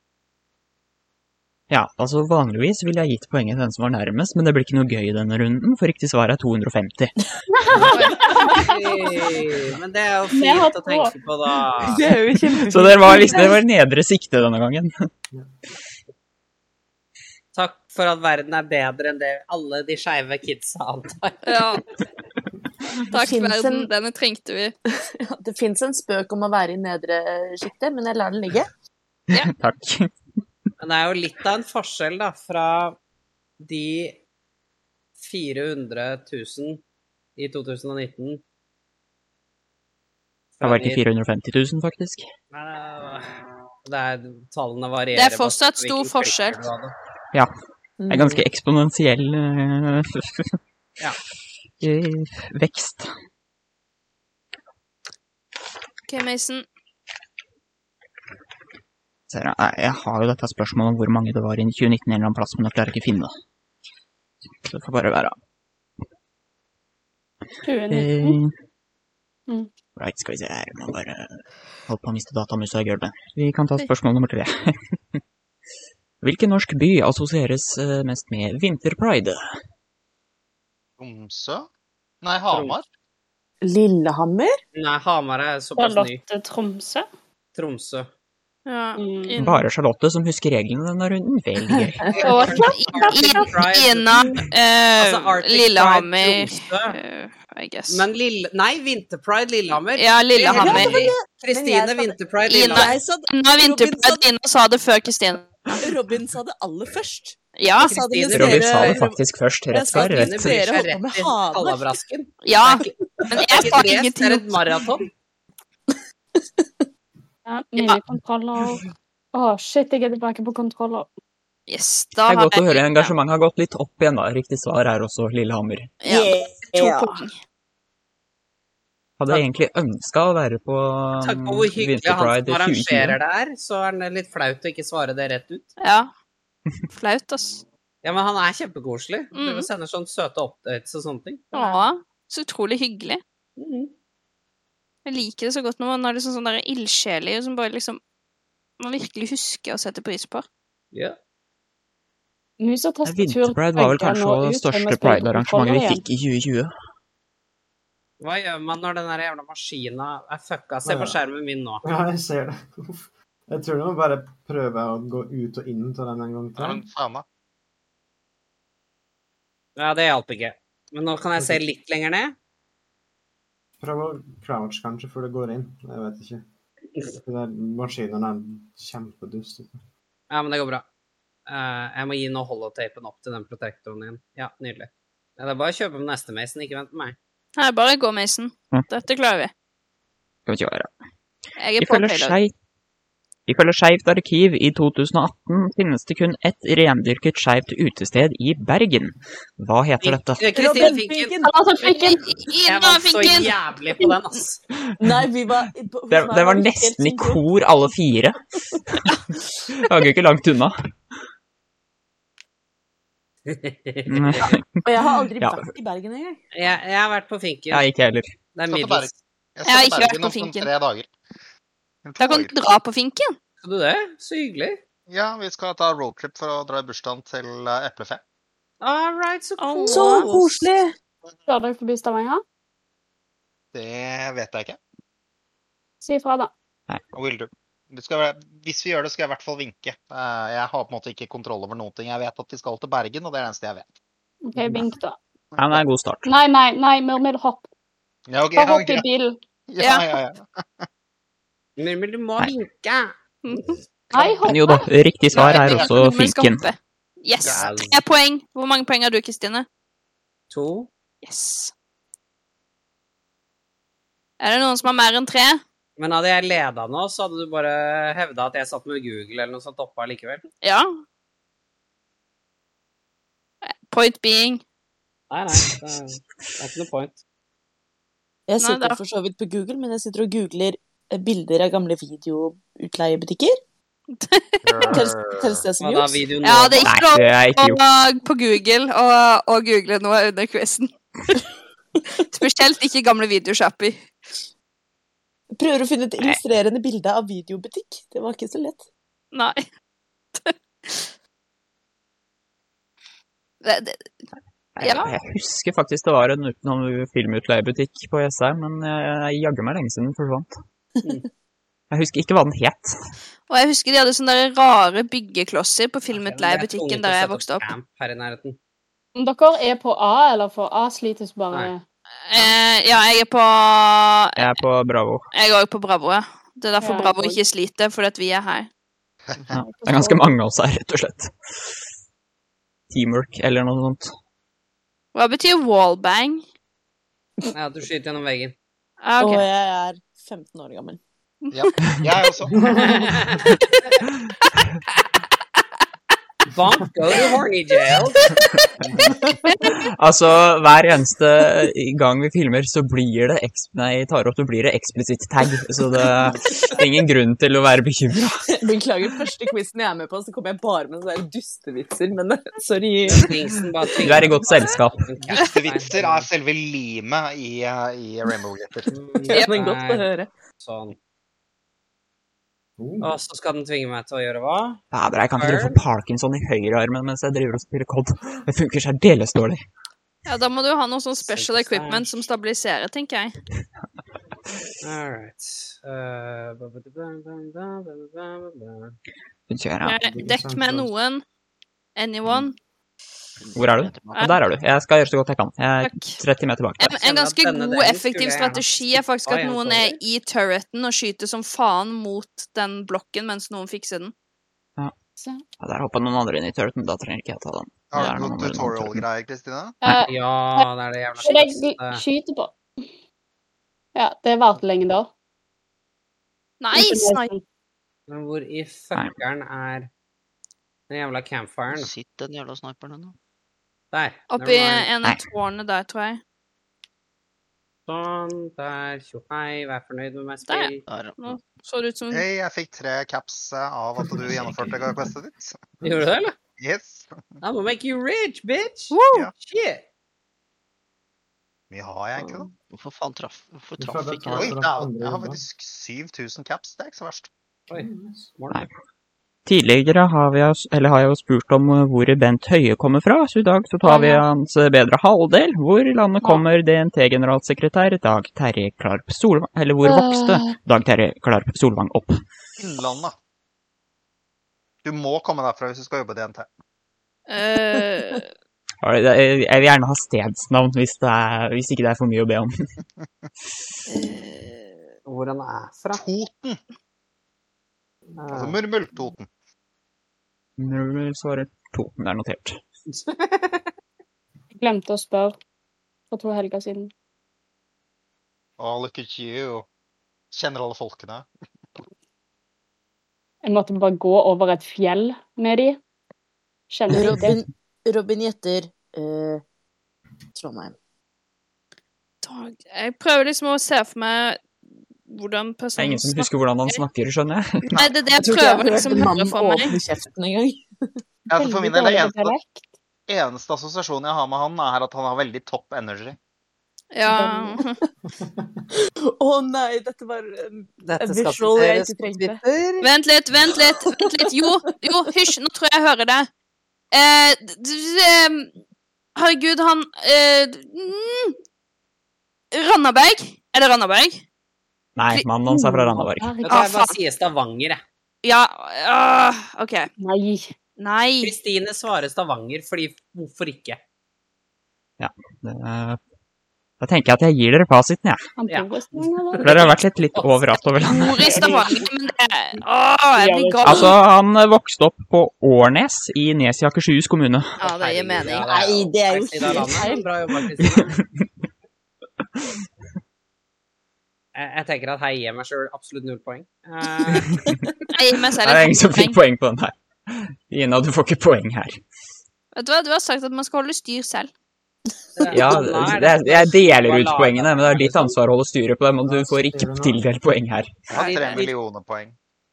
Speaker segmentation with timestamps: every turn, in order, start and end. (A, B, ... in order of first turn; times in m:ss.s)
0:01.7-0:07.1 A
0:07.5-0:09.1 B
0:07.8-0:08.6 C
0:08.5-0:12.1 D
0:10.3-0:11.1 B
0:11.8-0:13.4 E
0:12.7-0:15.1 A
0:13.1-0:13.5 B
0:17.5-0:21.6 D
0:21.4-0:21.8 C
0:23.1-0:24.7 C
0:23.1-0:23.9 E
0:25.2-0:28.7 E
0:29.3-0:30.1 A
0:30.8-0:33.0 D
0:33.6-0:34.2 D
0:35.2-0:36.8 D
0:37.4-0:38.4 D
0:40.6-0:41.0 D
0:40.6-0:42.2 A
0:42.5-0:43.3 D
0:43.8-0:46.9 D
0:45.1-0:46.6 C
0:48.0-0:48.4 E
0:48.1-0:50.5 A
0:51.8-0:53.1 A
0:56.1-0:56.6 C
0:59.3-1:03.3 A
1:04.6-1:05.3 A
1:07.6-1:08.4 B
1:07.9-1:08.5 A
1:10.0-1:11.3 A
1:11.9-1:15.2 A
1:16.2-1:19.4 A
1:21.0-1:21.7 F
1:22.2-1:22.8 F
1:22.5-1:22.8 D
1:23.6-1:24.5 E
1:24.7-1:26.2 D
1:25.8-1:27.1 B
1:27.5-1:28.1 D
1:28.6-1:29.6 C
1:29.0-1:29.4 B
1:29.4-1:32.0 A
1:31.8-1:32.3 E
1:32.1-1:34.4 D
1:32.2-1:33.6 B
1:32.5-1:38.0 C
1:35.0-1:37.0 D
1:37.9-1:42.9 D
1:39.9-1:41.0 C
1:40.4-1:42.2 E
1:42.5-1:45.6 C
1:42.7-1:44.2 E
1:45.7-1:52.0 E
1:47.6-1:48.0 C
1:47.8-1:49.0 D
1:48.3-1:50.6 A
1:49.9-1:55.1 D
1:52.4-1:54.6 C
1:53.2-1:53.6 E
1:57.4-1:58.8 B
1:59.3-2:01.1 B
2:01.7-2:03.1 C
2:02.2-2:05.9 A
2:06.0-2:07.3 C
2:06.1-2:07.2 E
2:09.2-2:13.2 A
2:11.2-2:15.7 D
2:15.8-2:16.1 C
2:16.9-2:17.6 C
2:18.0-2:21.8 D
2:19.3-2:19.7 C
2:21.5-2:23.2 C
2:23.6-2:23.9 D
2:25.0-2:28.0 C
2:28.8-2:30.4 C
2:32.6-2:36.0 B
2:33.0-2:36.7 A
2:38.2-2:41.8 D
2:40.8-2:41.2 G
2:41.8-2:46.8 G
2:46.6-2:47.2 F
2:49.8-2:52.3 D
2:53.8-2:56.4 G
2:57.2-2:59.8 G
3:00.3-3:00.8 D
3:01.5-3:07.2 D
3:07.6-3:09.5 C
3:10.5-3:10.9 A
3:11.6-3:12.4 C
3:11.8-3:12.5 A
3:13.5-3:20.4 A
3:20.0-3:21.4 D
3:20.5-3:21.5 E
3:21.4-3:22.2 B
3:21.8-3:23.6 C
3:22.7-3:24.6 D
3:25.0-3:27.4 E
3:26.1-3:28.4 A
3:29.7-3:30.7 A
3:33.5-3:34.6 D
3:34.1-3:34.7 A
3:34.8-3:36.4 E
3:35.4-3:35.7 A
3:36.5-3:37.8 D
3:37.7-3:38.3 A
3:38.5-3:39.1 D
3:38.7-3:41.1 F
3:39.6-3:40.7 C
3:42.0-3:42.6 F
3:42.2-3:43.3 C
3:43.6-3:44.8 D
3:45.1-3:48.2 F
3:48.8-3:50.4 D
3:49.6-3:50.3 C
3:49.9-3:50.9 E
3:51.5-3:52.4 B
3:53.7-3:54.8 F
3:56.0-3:56.5 B
3:57.1-4:03.9 F
4:04.4-4:05.2 B
4:04.6-4:04.9 A
4:05.5-4:05.8 F
4:05.6-4:06.3 A
4:06.2-4:07.6 B
4:08.3-4:09.0 F
4:08.6-4:09.4 B
4:09.7-4:10.8 F
4:09.8-4:10.1 C
4:11.8-4:14.4 D
4:13.4-4:13.7 C
4:14.1-4:14.9 B
4:14.4-4:16.6 A
4:15.3-4:15.9 F
4:15.3-4:19.6 C
4:17.4-4:17.8 F
4:17.4-4:18.0 D
4:20.5-4:20.9 D
4:21.2-4:21.7 C
4:24.4-4:25.6 C
4:26.0-4:30.4 D
4:30.6-4:31.0 C
4:33.9-4:34.6 C
4:35.3-4:37.2 D
4:38.5-4:43.6 E
4:38.6-4:39.0 C
4:44.1-4:44.9 C
4:44.6-4:45.6 F
4:44.8-4:46.3 E
4:45.8-4:46.9 D
4:46.4-4:50.9 C
4:46.8-4:47.8 A
4:52.3-4:54.0 C
4:55.6-4:58.8 E
4:59.3-4:59.6 C
5:00.4-5:01.1 C
5:03.6-5:04.0 C
5:04.8-5:10.5 A
5:04.8-5:05.1 C
5:11.9-5:12.9 A
5:13.5-5:17.7 C
5:16.1-5:18.6 D
5:19.1-5:21.8 B
5:22.2-5:24.5 C
5:24.4-5:25.2 A
5:25.3-5:28.7 C
5:26.8-5:27.4 B
5:29.5-5:31.7 A
5:29.6-5:30.3 B
5:32.9-5:34.1 A
5:35.1-5:36.4 C
5:37.5-5:38.5 D
5:39.0-5:39.4 C
5:39.2-5:41.0 E
5:41.4-5:41.9 C
5:41.5-5:43.1 F
5:42.6-5:42.9 G
5:42.7-5:43.5 D
5:46.5-5:48.3 D
5:48.4-5:48.6 C
5:49.6-5:58.4 A
5:58.5-6:03.6 E
6:03.0-6:06.3 D
6:04.0-6:05.0 A
6:05.3-6:08.9 F
6:08.9-6:10.1 D
6:09.3-6:10.3 E
6:10.6-6:11.0 D
6:12.8-6:13.1 G
6:13.0-6:14.8 D
6:14.9-6:19.6 A
6:15.4-6:15.8 D
6:20.2-6:23.3 C
6:21.2-6:22.2 D
6:24.8-6:29.0 D
6:29.5-6:30.0 A
6:29.8-6:31.2 C
6:30.1-6:30.9 G
6:32.0-6:32.6 C
6:33.4-6:34.4 H
6:33.5-6:37.0 A
6:34.1-6:34.4 C
6:35.8-6:36.2 C
6:36.8-6:44.1 C
6:37.0-6:40.0 D
6:45.6-6:49.0 A
6:47.9-6:49.8 F
6:49.8-6:52.5 B
6:50.1-6:52.0 D
6:53.9-6:55.1 B
6:56.6-6:57.3 C
6:56.7-6:57.4 B
6:58.1-6:59.9 D
7:00.9-7:01.9 D
7:01.7-7:03.1 H
7:03.9-7:04.9 D
7:04.3-7:06.2 C
7:07.9-7:10.8 D
7:10.5-7:12.2 C
7:10.8-7:11.4 H
7:12.1-7:15.6 F
7:15.8-7:16.1 G
7:15.8-7:16.3 D
7:16.6-7:17.4 F
7:17.4-7:19.8 D
7:18.9-7:19.3 C
7:21.7-7:22.5 F
7:22.7-7:24.6 H
7:23.8-7:25.4 G
7:24.3-7:27.3 F
7:27.7-7:28.6 D
7:27.7-7:28.3 G
7:29.4-7:42.2 A
7:33.8-7:34.2 B
7:39.8-7:40.6 B
7:42.6-7:43.2 F
7:44.8-7:46.5 F
7:47.3-7:48.3 C
7:48.8-7:52.5 A
7:53.9-7:54.8 C
7:55.0-7:56.0 D
7:55.9-7:56.6 F
7:58.2-7:58.6 D
7:58.3-7:59.3 F
8:00.6-8:02.6 A
8:02.9-8:03.7 D
8:04.6-8:05.4 B
8:06.1-8:06.9 B
8:08.6-8:09.6 F
8:10.3-8:11.3 F
8:13.4-8:15.8 B
8:16.7-8:17.4 B
8:16.9-8:19.4 E
8:20.3-8:20.8 E
8:22.2-8:24.4 C
8:25.1-8:26.8 C
8:25.8-8:27.7 A
8:27.7-8:29.8 C
8:28.1-8:30.6 E
8:31.3-8:32.4 F
8:31.3-8:32.7 B
8:33.1-8:36.2 F
8:36.9-8:37.8 C
8:37.1-8:37.5 B
8:38.1-8:38.6 G
8:39.2-8:42.4 E
8:40.8-8:42.8 D
8:42.8-8:46.3 C
8:43.9-8:45.1 E
8:46.9-8:48.5 C
8:49.2-8:51.4 C
8:52.5-8:54.2 C
8:55.0-8:56.4 A
8:55.5-8:56.6 B
8:56.4-8:57.0 C
8:56.4-8:57.8 D
8:58.2-8:59.9 C
9:00.0-9:00.5 B
9:00.8-9:01.3 C
9:01.2-9:03.8 D
9:05.0-9:06.0 A
9:06.8-9:08.2 A
9:08.4-9:09.6 B
9:08.5-9:10.6 D
9:09.4-9:11.2 A
9:10.8-9:14.0 C
9:11.1-9:11.8 B
9:13.2-9:13.9 B
9:13.6-9:17.6 A
9:17.6-9:18.4 C
9:17.6-9:21.0 D
9:18.4-9:20.1 E
9:20.7-9:21.0 A
9:24.3-9:27.4 D
9:27.9-9:29.2 C
9:28.4-9:31.8 A
9:32.5-9:34.3 C
9:35.2-9:38.2 D
9:35.3-9:40.7 A
9:39.0-9:40.0 G
9:40.9-9:42.1 F
9:40.9-9:41.5 D